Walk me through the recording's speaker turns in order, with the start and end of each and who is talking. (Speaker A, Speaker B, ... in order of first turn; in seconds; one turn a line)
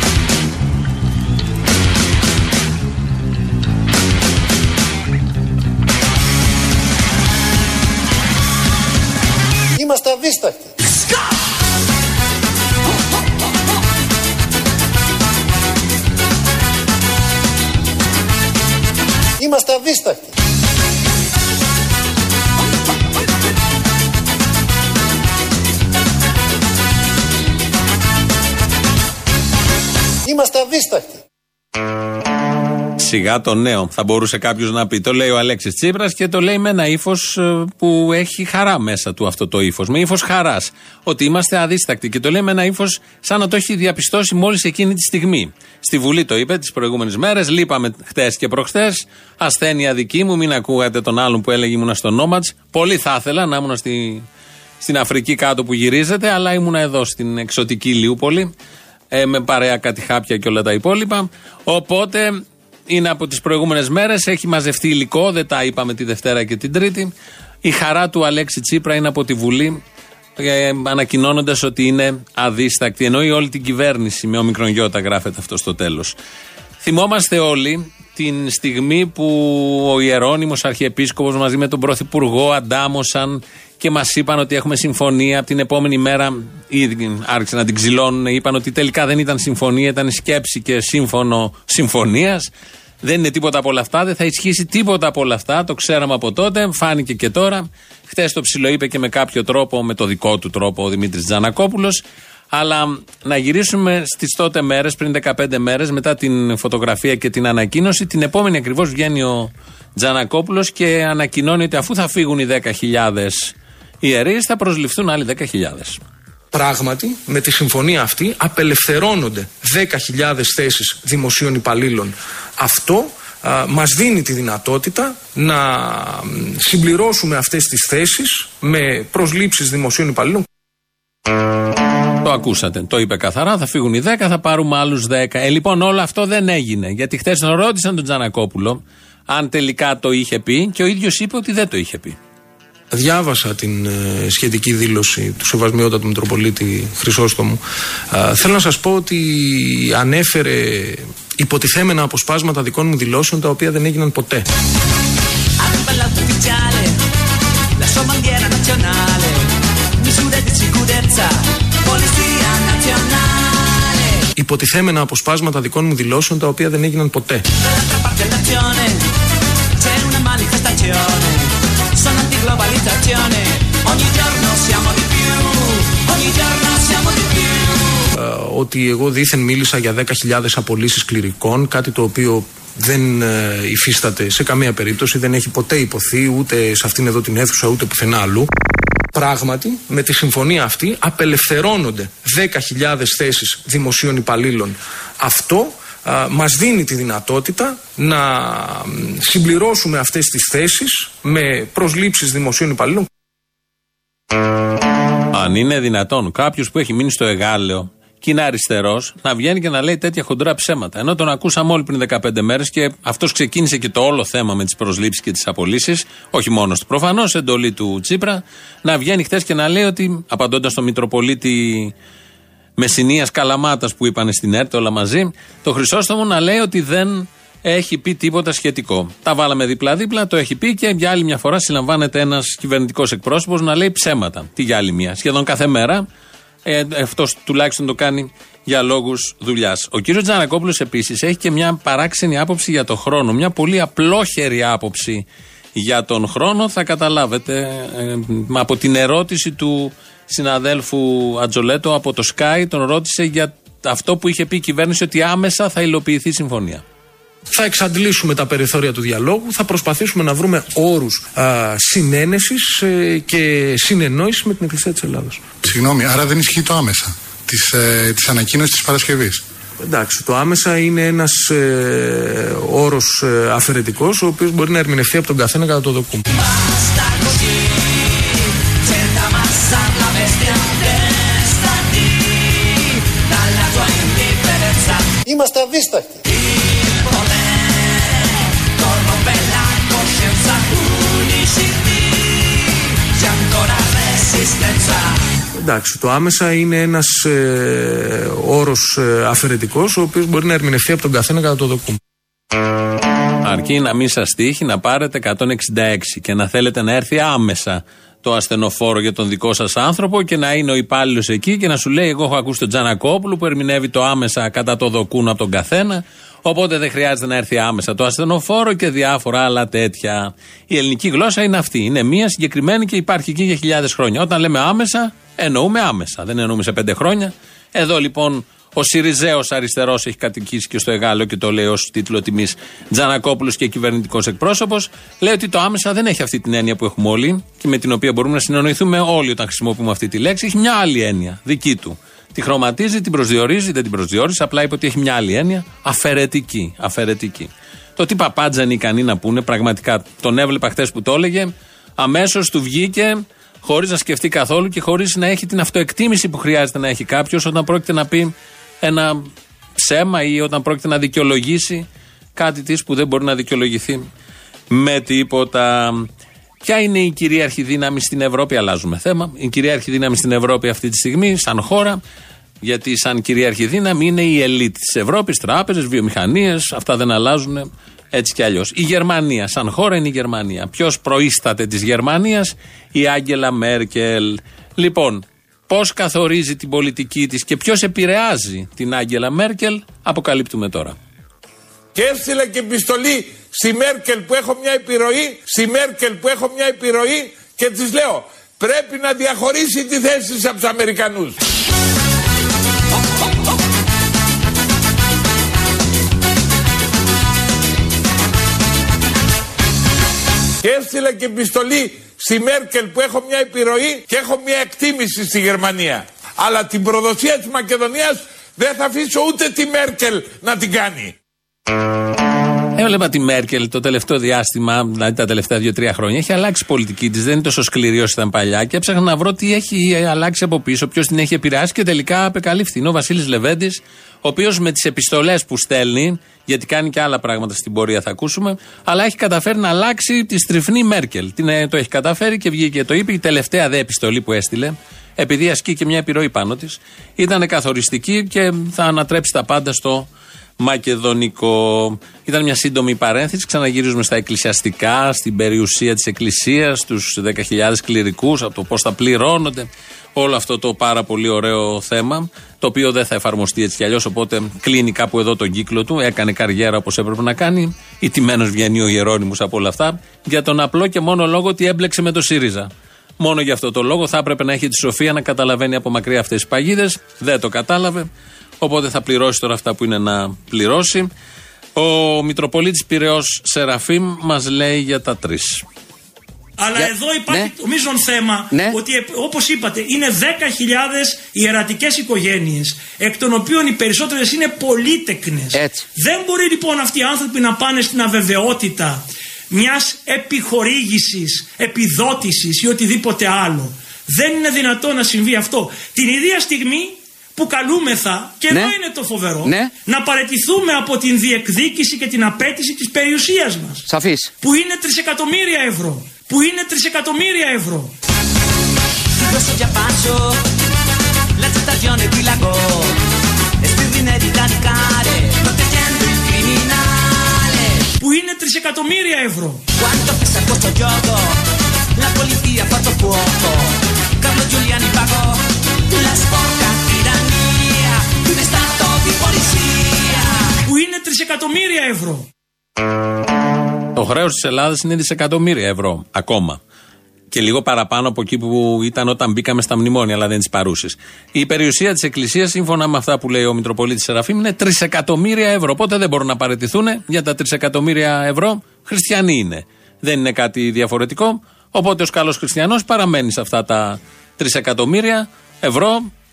Speaker A: 9.8-10.8
Speaker A: 19.4-20.3
Speaker A: 30.2-31.2
Speaker B: 33.0-54.3
Speaker B: 54.8-58.5
Speaker B: 59.1-67.1
Speaker B: 67.6-69.8
Speaker B: 70.4-76.2
Speaker B: 76.8-92.5
Speaker B: 93.0-116.0
Speaker C: 116.5-130.5
Speaker B: 132.2-142.2
Speaker C: 142.9-147.6
Speaker C: 148.1-154.4
Speaker D: 155.6-157.0
Speaker D: 157.8-159.5
Speaker D: 160.0-164.2
Speaker C: 164.4-167.4
Speaker D: 167.6-169.1
Speaker D: 169.8-178.0
Speaker C: 178.1-188.5
Speaker C: 189.1-203.1
Speaker B: 205.3-221.9
Speaker B: 222.8-236.1
Speaker B: 236.7-256.8
Speaker C: 257.5-265.5
Speaker E: 265.6-269.4
Speaker C: 269.8-276.2
Speaker D: 276.4-278.2
Speaker D: 278.8-285.1
Speaker A: 285.3-286.2
Speaker D: 286.4-295.2
Speaker C: 295.6-302.0
Speaker B: 303.4-364.1
Speaker B: 364.7-366.1
Speaker B: 366.6-372.0
Speaker B: 372.6-391.0
Speaker F: 391.9-401.4
Speaker F: 410.6-421.1
Speaker B: 422.8-450.1
Speaker B: 450.6-478.1
Speaker B: 478.6-481.1
Speaker B: 481.8-485.6
Speaker G: 486.6-513.8
Speaker H: 486.8-487.5
Speaker H: 488.5-488.8
Speaker H: 495.5-495.9
Speaker H: 508.5-508.8
Speaker H: 509.4-509.7
Speaker H: 513.9-514.3
Speaker G: 514.4-517.9
Speaker D: 519.2-520.4
Speaker D: 521.4-522.9
Speaker D: 523.6-527.9
Speaker G: 528.0-529.6
Speaker D: 529.8-531.4
Speaker D: 532.0-540.3
Speaker G: 540.7-542.3
Speaker B: 544.0-546.6
Speaker B: 547.3-566.1